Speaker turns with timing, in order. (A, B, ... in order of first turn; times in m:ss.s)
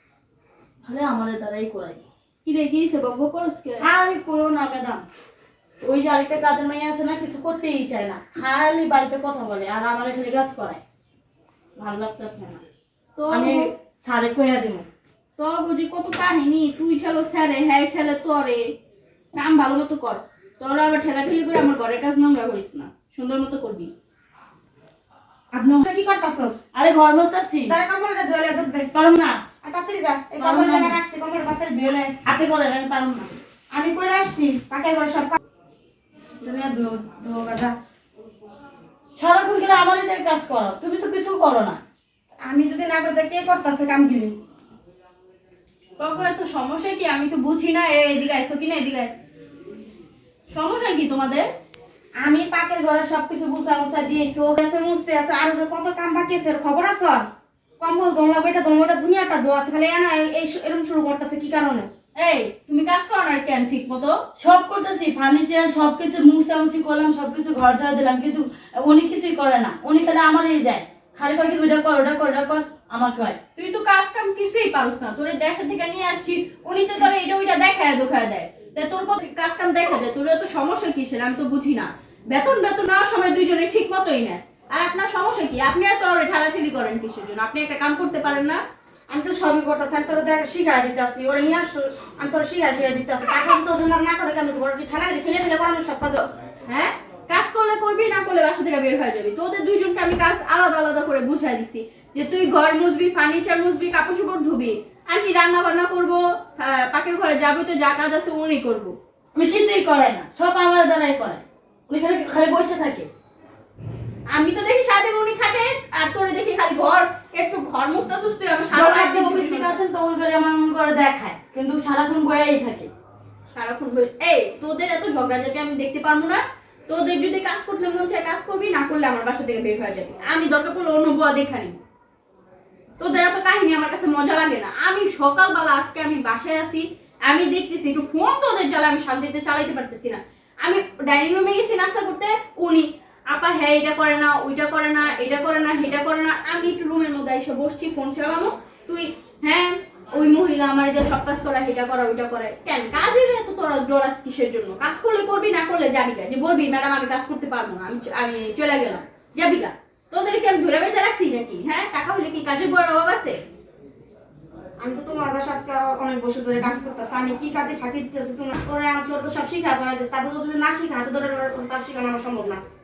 0:00.8-0:02.0 A
0:02.4-0:03.9 B
0:03.8-0:05.0 A
0:05.8-0:10.8 A
0:11.8-0:12.6 A
0:13.2-0:13.7 B
0:13.3-0:14.9 A
0:15.4-0:18.6 B
0:19.4-0:23.9 B
0:25.5-0:25.9 A
0:25.8-0:26.6 C
0:26.7-0:27.8 A
0:27.7-0:28.9 C
0:28.9-0:29.4 A
0:29.6-0:32.2 C
0:30.4-0:31.0 A
0:32.2-0:33.3 A
0:33.7-0:35.4 C
0:36.4-0:37.7 C
0:39.2-0:41.8 A
0:42.4-0:44.3 C
0:46.0-0:49.1 B
0:50.5-0:51.4 B
0:52.2-0:57.2 C
0:57.8-1:01.9 C
1:02.2-1:04.2 B
1:04.4-1:13.4 A
1:13.6-1:28.6 B
1:29.1-1:36.2 C
1:36.7-1:49.0 B
1:49.3-1:53.1 A
1:54.3-1:59.8 B
1:58.7-2:02.9 A
2:03.5-2:11.8 B
2:13.0-2:43.4 B
2:44.8-2:52.6 C